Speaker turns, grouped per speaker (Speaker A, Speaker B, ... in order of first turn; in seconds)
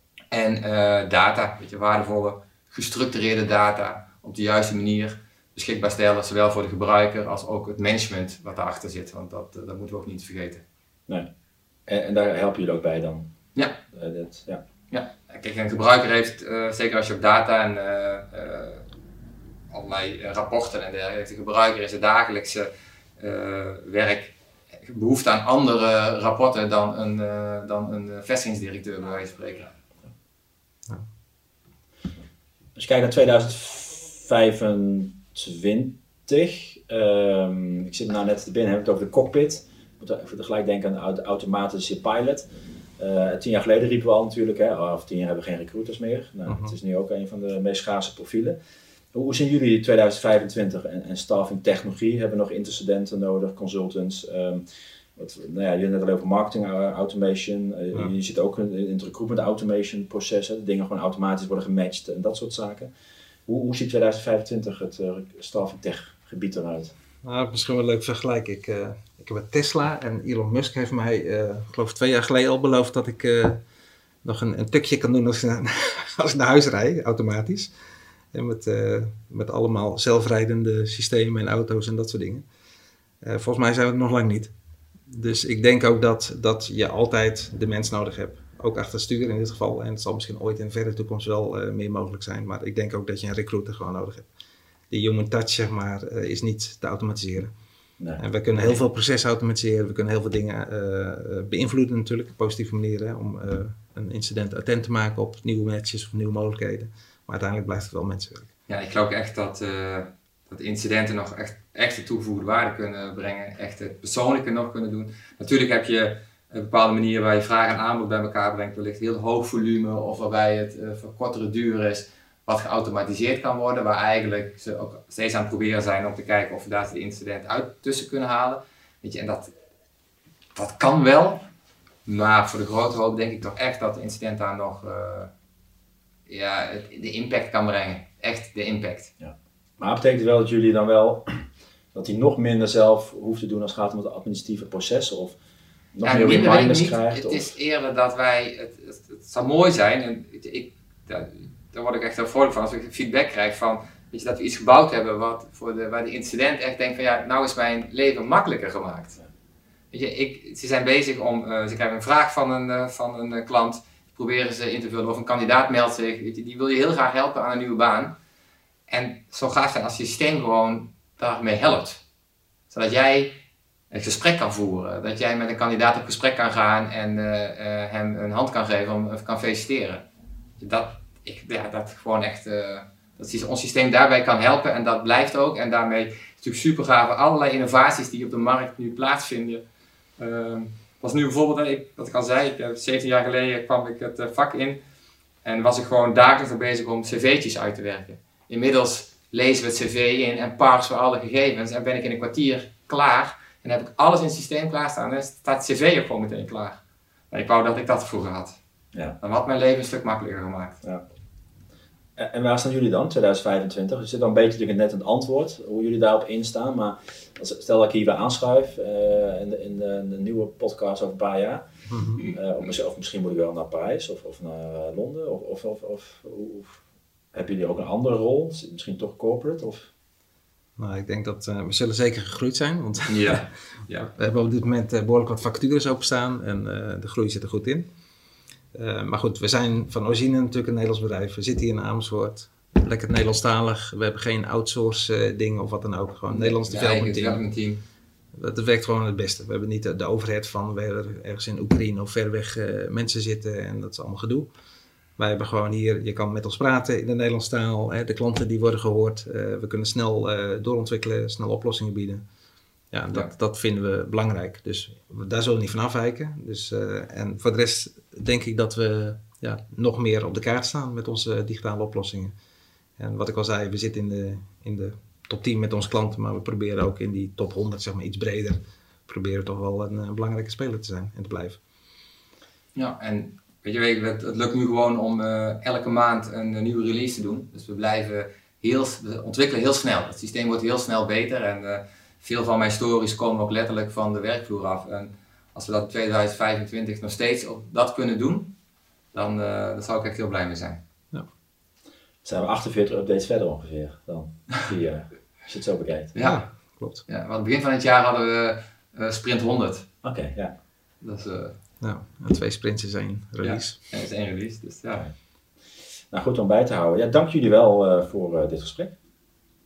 Speaker A: 0.3-10.6, 14.9-18.9, 19.7-29.7, 108.7-129.5, 130.6-131.5, 132.1-135.3, 136.3-139.1, 146.0-159.2, 159.9-168.1, 168.9-172.0, 172.7-173.4, 173.9-180.1, 180.6-189.6, 190.2-194.8, 195.4-208.6, 209.2-210.8, 233.1-234.1, 246.3-247.8, 282.8-298.5, 299.1-300.8, 306.1-306.5, 307.1-309.9, 311.0-311.6, 313.4-315.1
Speaker B: 11.9-13.3, 13.9-14.6, 32.8-42.5, 43.0-48.6, 49.1-54.6, 55.1-62.9, 63.5-66.9, 139.2-145.4, 145.9-147.5, 212.2-221.7, 222.2-226.8, 227.3-229.9, 302.2-306.1, 310.0-310.5, 316.1-318.9
Speaker C: 46.5-46.7, 67.2-73.6, 74.2-77.7, 78.3-82.5, 83.2-84.5, 85.1-94.3, 94.9-97.5, 98.2-108.5, 221.9-222.2, 230.8-233.4, 234.2-237.9, 238.7-247.4, 248.3-254.5, 255.2-262.2, 262.9-272.3, 273.0-281.6, 306.2-307.0, 311.8-313.8